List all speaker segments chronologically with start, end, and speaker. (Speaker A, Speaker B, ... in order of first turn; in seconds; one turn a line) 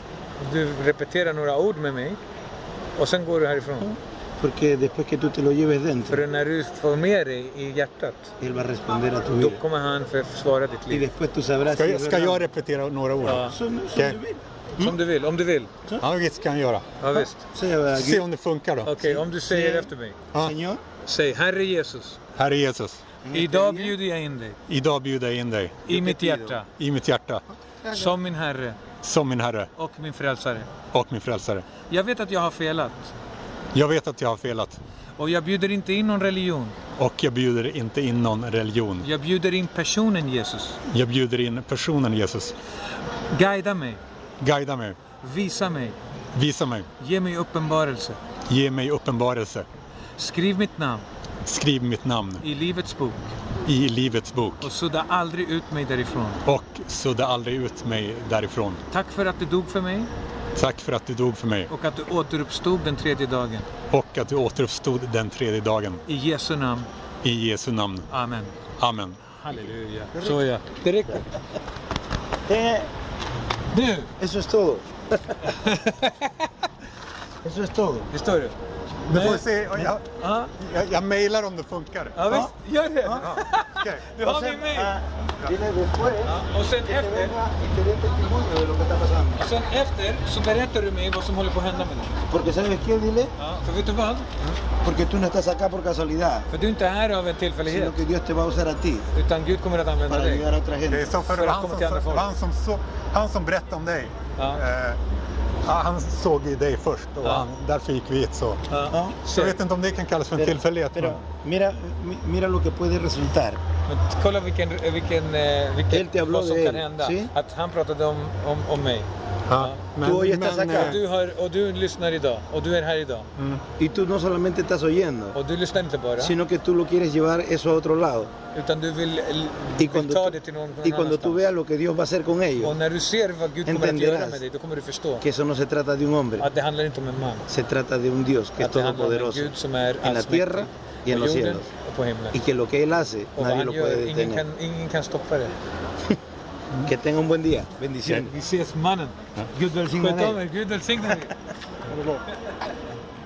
Speaker A: 0.4-2.2
Speaker A: 3.0-4.0
Speaker B: 4.4-6.2
Speaker A: 6.1-8.3
Speaker B: 8.4-9.6
Speaker A: 9.3-11.1
Speaker B: 10.9-12.5
Speaker C: 11.7-14.2
Speaker A: 13.2-13.6
Speaker B: 13.4-15.0
Speaker A: 14.8-15.7
Speaker C: 16.0-16.9
Speaker A: 17.0-17.4
Speaker B: 17.1-18.2
Speaker C: 17.9-18.9
Speaker A: 18.8-20.2
Speaker B: 18.9-20.8
Speaker A: 21.0-22.2
Speaker C: 22.4-23.0
Speaker B: 23.2-24.0
Speaker A: 23.3-24.6
Speaker C: 24.7-25.9
Speaker A: 25.9-26.7
Speaker B: 25.9-26.6
Speaker C: 26.8-27.4
Speaker B: 27.8-28.1
Speaker A: 27.9-28.8
Speaker C: 29.0-29.7
Speaker A: 29.8-30.7
Speaker C: 30.9-31.6
Speaker A: 31.9-33.1
Speaker C: 33.7-34.8
Speaker A: 35.2-36.8
Speaker C: 37.0-39.1
Speaker A: 39.0-40.8
Speaker C: 40.9-42.5
Speaker A: 43.3-44.0
Speaker C: 44.4-45.0
Speaker A: 45.2-46.0
Speaker C: 46.3-46.9
Speaker A: 47.0-48.2
Speaker C: 48.5-49.6
Speaker A: 50.2-51.0
Speaker C: 51.5-52.4
Speaker A: 52.4-53.3
Speaker C: 53.6-54.7
Speaker A: 54.6-56.4
Speaker C: 56.4-58.8
Speaker A: 58.9-60.1
Speaker C: 60.5-61.7
Speaker A: 61.7-63.7
Speaker C: 63.9-66.0
Speaker A: 66.1-66.9
Speaker C: 67.2-68.1
Speaker A: 68.1-68.6
Speaker C: 68.8-69.2
Speaker A: 69.3-71.2
Speaker B: 72.5-72.9
Speaker A: 73.7-74.1
Speaker B: 74.2-75.5
Speaker A: 75.4-76.5
Speaker B: 77.4-78.1
Speaker A: 78.1-78.5
Speaker C: 79.1-80.0
Speaker A: 79.1-80.5
Speaker C: 80.5-82.5
Speaker A: 82.2-84.9
Speaker C: 83.2-84.0
Speaker B: 84.2-89.5
Speaker A: 86.2-87.3
Speaker A: 89.4-92.2
Speaker B: 92.3-93.3
Speaker A: 93.4-94.3
Speaker B: 94.8-96.5
Speaker A: 96.5-98.0
Speaker B: 97.7-99.1
Speaker A: 99.1-100.5
Speaker B: 100.1-101.2
Speaker C: 100.9-105.0
Speaker A: 101.2-102.3
Speaker A: 104.3-104.6
Speaker C: 105.6-108.6
Speaker A: 108.7-109.6
Speaker B: 108.9-109.2
Speaker C: 109.3-111.2
Speaker B: 110.3-113.6
Speaker A: 113.9-119.8
Speaker B: 115.9-117.3
Speaker C: 119.5-121.0
Speaker B: 120.0-121.0
Speaker A: 120.7-123.3
Speaker C: 123.3-123.6
Speaker B: 123.8-125.3
Speaker A: 125.3-126.3
Speaker B: 126.2-128.3
Speaker A: 128.5-131.5
Speaker B: 129.8-132.8
Speaker A: 132.6-135.2
Speaker B: 133.6-134.4
Speaker B: 135.2-136.5
Speaker A: 136.4-137.5
Speaker B: 137.5-141.7
Speaker A: 138.6-142.4
Speaker B: 142.3-144.4
Speaker A: 143.3-145.5
Speaker B: 146.8-148.3
Speaker A: 148.1-149.2
Speaker B: 149.5-150.4
Speaker A: 149.9-151.4
Speaker C: 151.9-152.2